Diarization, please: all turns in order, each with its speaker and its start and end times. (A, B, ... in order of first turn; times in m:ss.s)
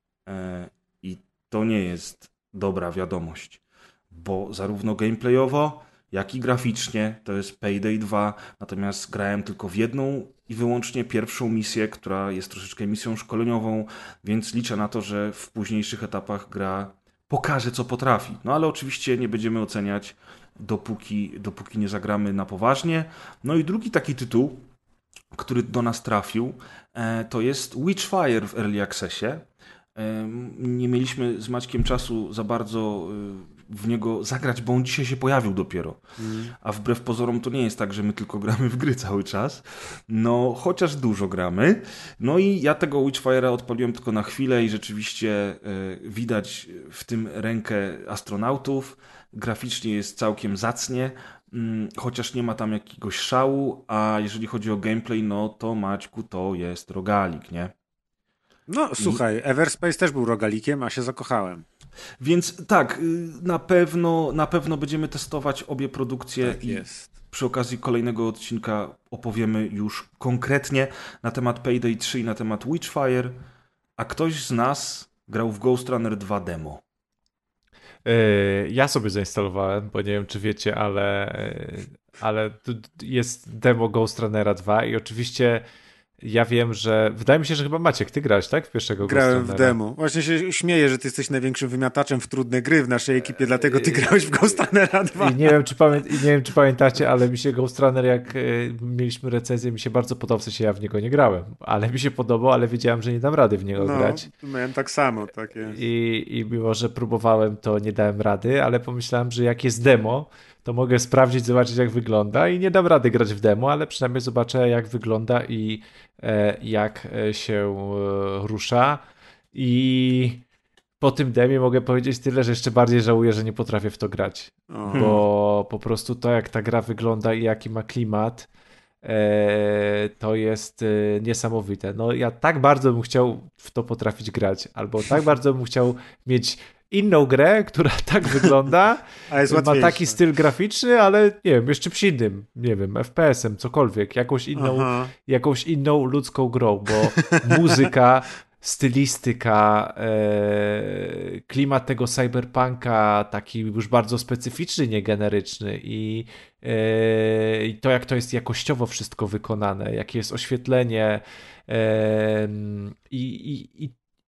0:00.3-0:24.6 A
0:25.3-0:36.0 A
0:36.2-0:36.5 B
0:36.6-0:57.7 A
0:58.7-1:01.6 B
1:02.2-1:13.4 A
1:06.4-1:07.1 B
1:14.0-1:16.8 A
1:18.0-1:25.6 C
1:26.2-1:29.8 C
1:29.0-1:35.6 B
1:33.7-1:34.1 C
1:35.2-1:44.3 C
1:43.8-1:45.8 B
1:45.7-1:59.0 C
1:59.5-2:00.4 C
2:01.0-2:08.5 C
2:04.7-2:05.2 B
2:04.9-2:05.2 A
2:09.0-2:43.9 C
2:19.3-2:20.2 B
2:24.6-2:25.1 B
2:27.3-2:27.8 B